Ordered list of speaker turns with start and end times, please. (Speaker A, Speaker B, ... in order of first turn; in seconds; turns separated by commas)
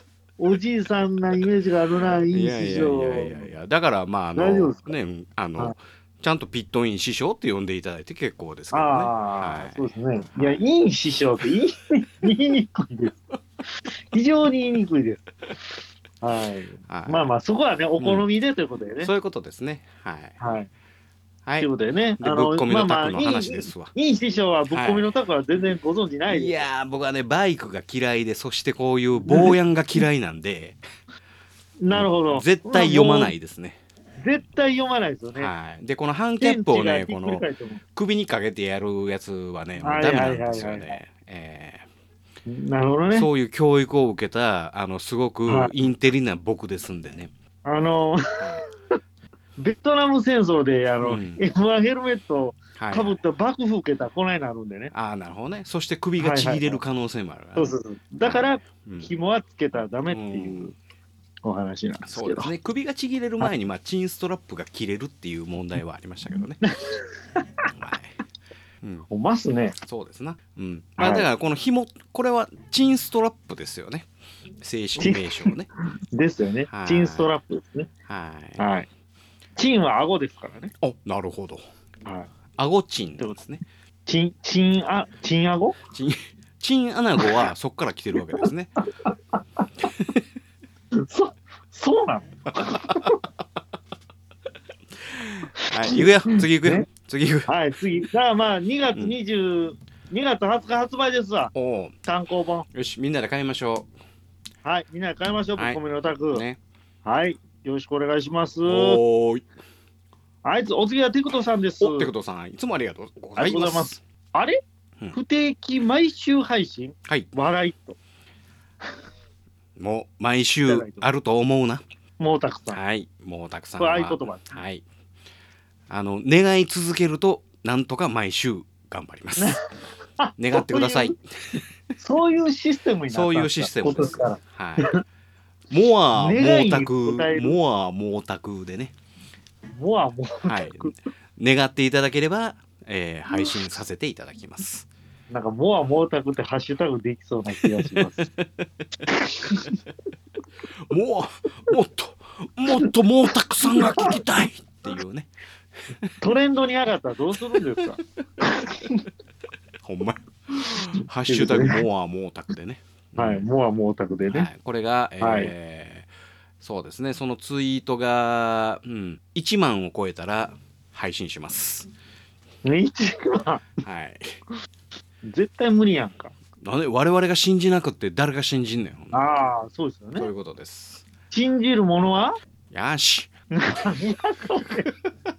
Speaker A: 0.4-3.5, Speaker B: 2.3-10.6, Speaker A: 4.3-4.9, Speaker A: 8.7-13.2, Speaker A: 14.1-15.3, Speaker A: 16.2-19.1, Speaker B: 16.9-17.2, Speaker B: 18.0-18.2, Speaker B: 19.0-20.4, Speaker A: 20.4-20.7, Speaker A: 21.6-26.6, Speaker B: 22.2-23.9, Speaker B: 24.7-25.1, Speaker B: 26.3-30.8, Speaker A: 29.2-29.5, Speaker A: 31.8-33.3, Speaker B: 31.9-33.8, Speaker A: 34.2-35.5, Speaker B: 35.4-37.4, Speaker A: 36.4-37.8, Speaker B: 38.0-41.9, Speaker A: 39.8-41.0, Speaker A: 42.5-43.3, Speaker B: 43.1-47.3, Speaker A: 45.5-45.7, Speaker A: 47.6-48.6, Speaker A: 49.6-54.9, Speaker B: 51.0-51.4, Speaker B: 52.8-53.1, Speaker B: 54.9-59.1, Speaker A: 56.2-56.8, Speaker A: 57.5-60.7, Speaker B: 60.1-60.6, Speaker A: 61.4-62.5, Speaker B: 62.0-66.6, Speaker A: 66.6-67.7, Speaker B: 67.7-68.2, Speaker A: 69.1-69.8, Speaker B: 69.8-74.1, Speaker A: 71.0-71.3, Speaker B: 74.6-75.7, Speaker A: 75.0-75.5, Speaker A: 76.1-77.9, Speaker B: 76.7-77.3, Speaker B: 78.1-78.6, Speaker A: 78.6-78.9, Speaker A: 79.6-80.7, Speaker B: 80.8-81.6, Speaker A: 82.0-82.3, Speaker B: 82.6-83.6, Speaker A: 84.0-85.8, Speaker B: 85.9-88.7, Speaker A: 89.0-89.6, Speaker A: 91.0-93.2, Speaker B: 92.5-93.1, Speaker B: 95.1-97.5, Speaker A: 95.7-96.9, Speaker A: 97.5-101.5, Speaker B: 101.5-101.9, Speaker A: 102.0-102.7, Speaker B: 102.7-103.9, Speaker A: 104.6-106.4, Speaker B: 106.3-106.6, Speaker A: 107.0-109.0, Speaker B: 108.6-109.4, Speaker A: 110.4-112.1, Speaker B: 111.8-114.0, Speaker A: 113.4-114.6, Speaker A: 115.1-118.0, Speaker B: 119.8-121.8, Speaker A: 120.7-121.0, Speaker A: 122.2-122.8, Speaker B: 122.7-124.8, Speaker A: 123.8-124.6, Speaker B: 125.9-129.6, Speaker A: 130.2-131.1, Speaker B: 130.4-131.6, Speaker A: 132.0-135.0, Speaker B: 133.1-134.9, Speaker B: 135.7-138.9, Speaker A: 136.1-137.6, Speaker A: 139.8-140.9, Speaker B: 140.4-144.9, Speaker A: 145.3-148.2, Speaker B: 147.7-148.5, Speaker A: 149.1-149.7, Speaker B: 150.9-155.3, Speaker A: 153.6-154.2, Speaker A: 156.2-159.1, Speaker B: 159.8-163.4, Speaker A: 160.6-161.8, Speaker A: 163.2-164.5, Speaker B: 164.3-166.1, Speaker A: 165.2-165.5, Speaker B: 166.6-171.9, Speaker A: 172.6-173.7, Speaker B: 173.8-174.2, Speaker A: 175.2-176.3, Speaker B: 176.6-179.2, Speaker A: 179.1-180.3, Speaker B: 180.2-181.0, Speaker A: 181.3-182.4, Speaker B: 182.7-183.3, Speaker A: 183.5-184.9